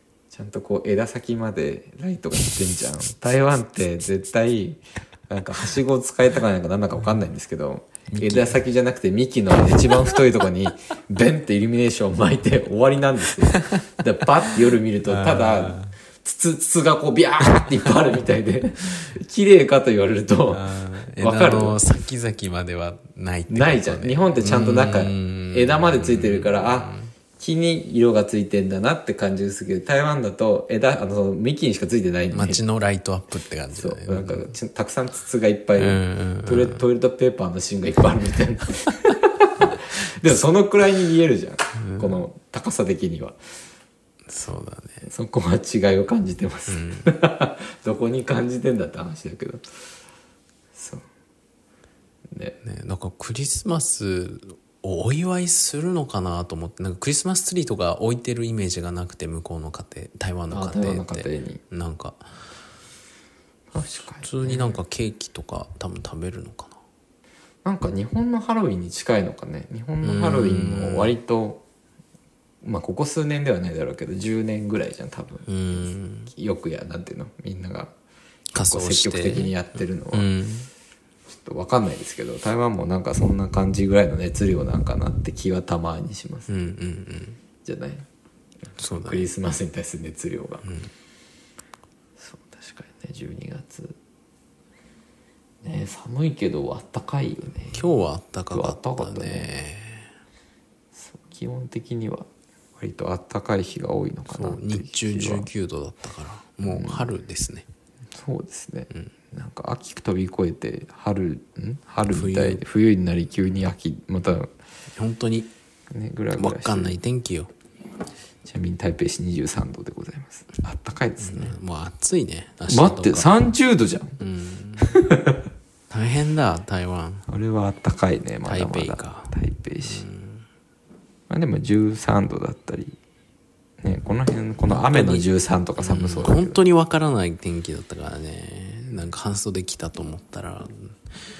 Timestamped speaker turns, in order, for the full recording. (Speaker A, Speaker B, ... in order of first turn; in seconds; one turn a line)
Speaker A: 0.3-21.8
Speaker B: 8.1-8.6
Speaker B: 15.0-15.9
Speaker B: 20.5-27.1
Speaker A: 23.5-32.6
Speaker B: 32.3-34.5
Speaker A: 33.7-43.4
Speaker B: 35.8-36.8
Speaker B: 41.8-42.2
Speaker B: 44.3-45.0
Speaker A: 45.0-49.7
Speaker B: 46.7-47.1
Speaker A: 50.8-51.0
Speaker A: 52.3-52.6
Speaker B: 52.6-62.3
Speaker A: 60.5-61.6
Speaker A: 63.7-64.8
Speaker B: 64.2-66.8
Speaker A: 67.6-71.6
Speaker B: 70.0-71.1
Speaker A: 72.6-77.9
Speaker B: 75.5-76.3
Speaker B: 78.5-79.5
Speaker A: 78.6-80.3
Speaker B: 80.1-80.7
Speaker A: 81.3-86.5
Speaker B: 86.5-87.4
Speaker A: 87.6-88.0
Speaker A: 88.7-90.7
Speaker B: 88.8-89.2
Speaker B: 90.6-90.9
Speaker A: 92.2-94.0
Speaker A: 95.6-97.9
Speaker B: 97.7-100.1
Speaker A: 98.5-99.5
Speaker A: 100.9-105.5
Speaker B: 104.3-107.7
Speaker A: 106.6-107.1
Speaker A: 108.1-114.5
Speaker B: 112.1-112.6
Speaker B: 115.0-115.5
Speaker A: 115.9-117.0
Speaker B: 116.4-117.5
Speaker A: 118.4-121.5
Speaker B: 121.2-123.3
Speaker A: 122.7-124.2
Speaker B: 124.2-124.9
Speaker A: 124.8-125.4
Speaker B: 125.9-127.2
Speaker A: 127.3-130.1
Speaker B: 128.4-129.3
Speaker B: 129.8-130.4
Speaker A: 131.3-133.0
Speaker A: 133.8-136.6
Speaker B: 134.7-140.9